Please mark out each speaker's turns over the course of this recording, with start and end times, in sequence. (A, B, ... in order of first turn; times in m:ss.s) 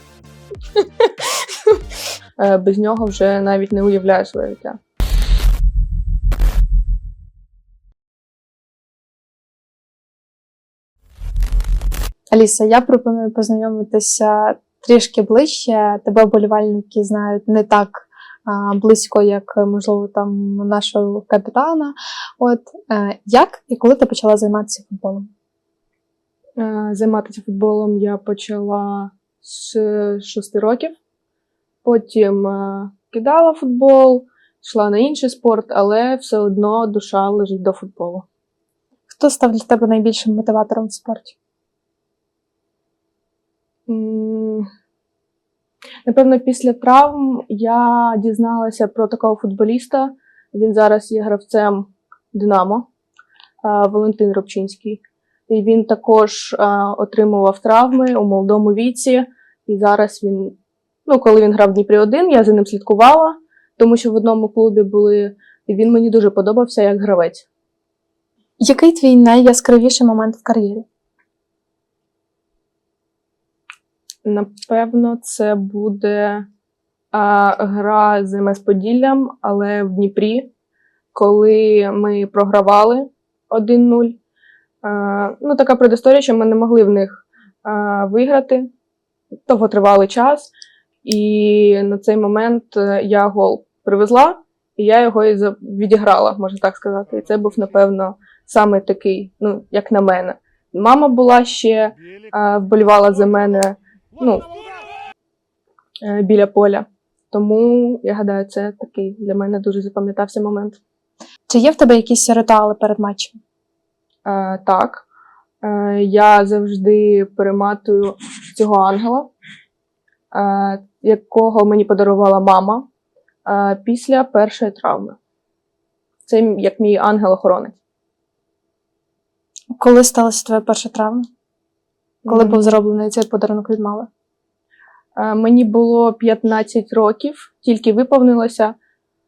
0:00.7-0:01.8 A
0:02.4-0:04.8 A
0:12.3-0:25.3 B
0:26.6-0:30.9 A
0:31.8-0:38.2 A
0:39.1-0:41.3 B
0:43.9-0:44.7 A
0:46.0-0:52.8 A
0:53.6-1:07.5 A
1:08.6-1:10.8 B
1:14.2-1:16.4 A
1:17.1-1:20.5 A
1:21.1-1:24.2 A
1:24.8-1:28.7 A
1:29.5-1:30.5 A
1:31.0-1:44.5 A
1:46.0-1:50.8 A
1:51.5-1:53.4 B
1:54.2-1:55.0 A
1:55.6-1:59.3 A
2:00.3-2:02.9 A
2:03.4-2:05.2 A
2:06.2-2:07.8 A
2:09.8-2:11.3 B
2:12.2-2:12.8 A
2:12.3-2:14.1 B
2:15.2-2:18.8 A